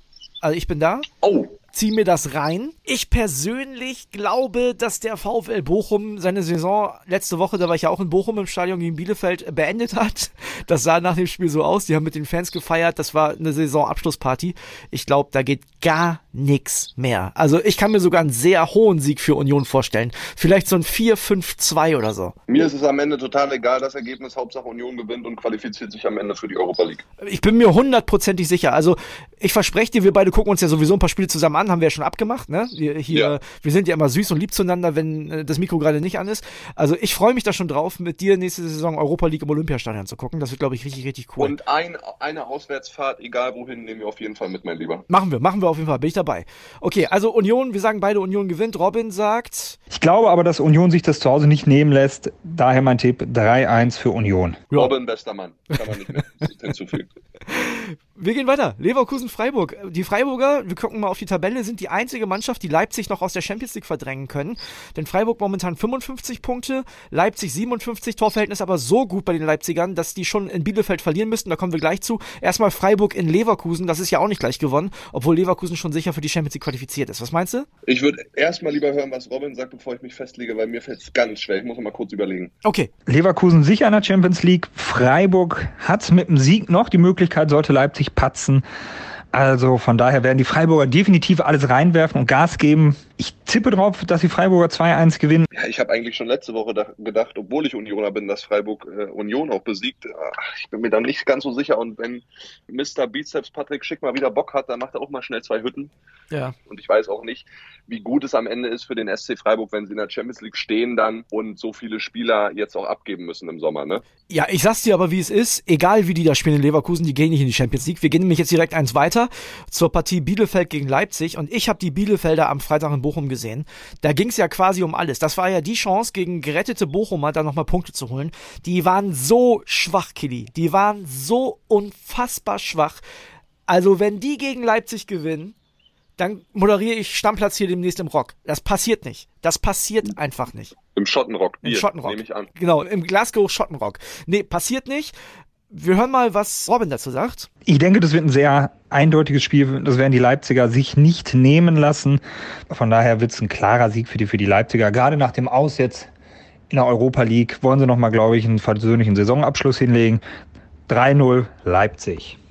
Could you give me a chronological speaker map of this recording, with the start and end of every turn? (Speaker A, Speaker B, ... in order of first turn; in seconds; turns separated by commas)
Speaker A: 0.4-1.1, Speaker B: 1.2-1.6, Speaker A: 1.7-22.4, Speaker B: 22.5-27.0, Speaker A: 27.2-41.6, Speaker B: 41.4-45.0, Speaker A: 45.1-49.8, Speaker C: 49.9-54.6, Speaker B: 54.7-57.1, Speaker A: 57.5-77.7, Speaker B: 77.9-82.5, Speaker A: 82.6-82.9, Speaker C: 83.1-88.6, Speaker C: 89.3-95.5, Speaker B: 95.5-105.9, Speaker B: 106.7-114.0, Speaker A: 114.3-133.0, Speaker A: 133.7-135.6, Speaker A: 136.2-140.8, Speaker B: 140.9-142.5, Speaker A: 141.6-145.2, Speaker A: 145.7-147.5, Speaker C: 147.7-156.1, Speaker C: 156.7-160.2, Speaker C: 160.9-162.4